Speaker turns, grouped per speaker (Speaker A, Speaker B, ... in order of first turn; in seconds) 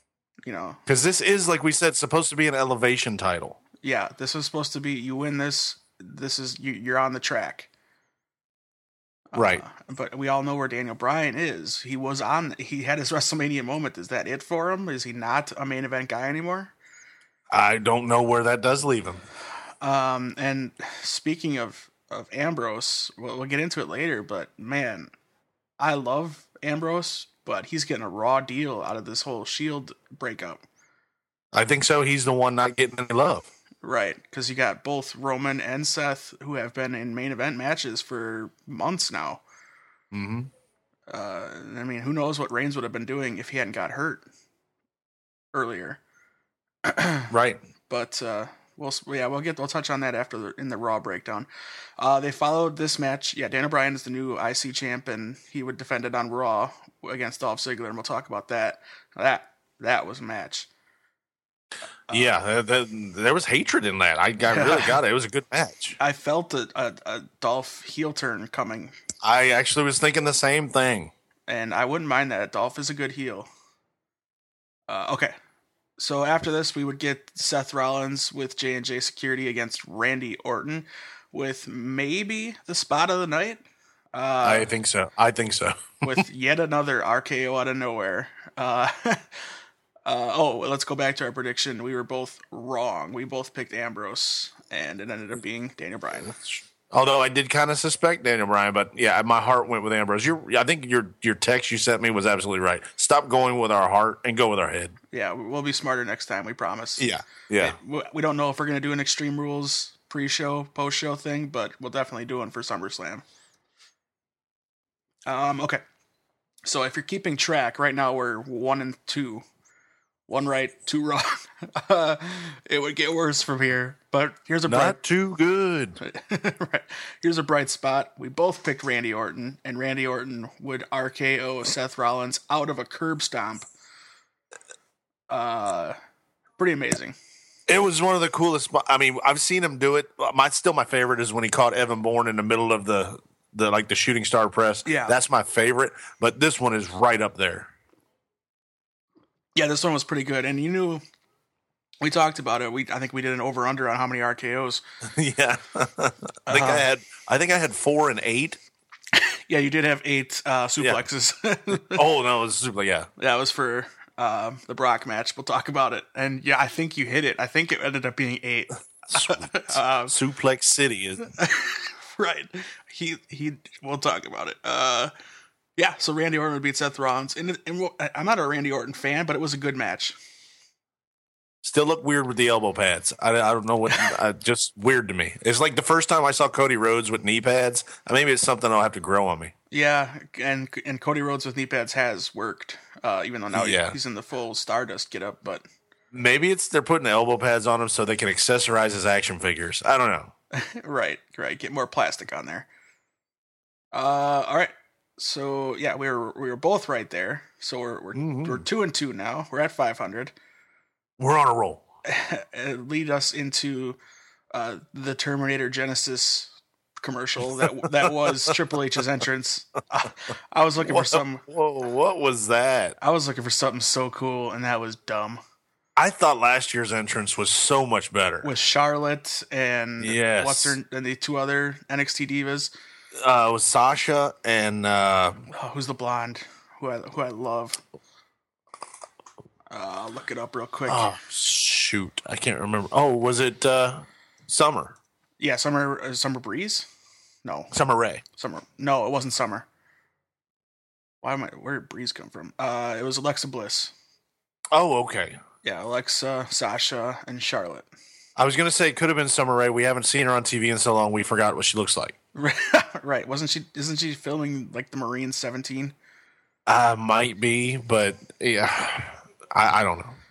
Speaker A: 0.5-0.8, 3.8-7.7, 9.3-16.7, 19.8-25.1, 25.8-30.6, 33.8-39.4, 41.1-44.2, 45.5-46.0, 46.8-47.3, 47.9-51.5, 52.0-60.7, 64.5-65.0, 66.0-68.9, 71.5-73.5, 74.9-75.3, 76.0-83.6, 84.1-84.7, 86.0-89.4, 90.0-96.4, 105.1-107.1, 107.6-113.2, 115.3-115.8, 116.6-119.4, 120.3-125.0, 126.0-133.7, 135.3-135.9, 136.6-137.2, 144.8-145.1, 149.6-151.0, 152.0-154.8, 156.5-156.9, 159.1-162.0, 163.2-170.1, 171.2-175.1, 175.8-180.2, 189.7-195.6, 200.5-202.7, 203.9-210.3, 212.1-214.0, 214.5-221.4, 223.0-225.4, 228.4-232.7, 235.5-237.8, 239.7-241.1, 245.4-246.9, 247.4-247.7, 248.4-249.7, 251.2-253.9, 255.6-257.9, 262.3-265.9
Speaker B: 0.9-3.6, 9.3-9.6, 17.5-19.2, 31.5-33.5, 40.1-40.5, 47.3-47.6, 62.1-66.0, 69.2-71.1, 84.4-86.2, 96.9-105.0, 107.0-107.8, 124.7-126.0, 137.7-147.7, 155.0-158.6, 161.9-163.1, 169.1-171.2, 181.6-189.5, 193.5-193.9, 196.1-200.3, 208.1-208.6, 211.2-211.8, 217.6-218.5, 220.8-222.9, 225.9-228.5, 230.0-230.8, 233.2-235.4, 240.9-244.9, 247.7-248.2, 254.7-255.4, 258.4-262.1, 266.7-270.2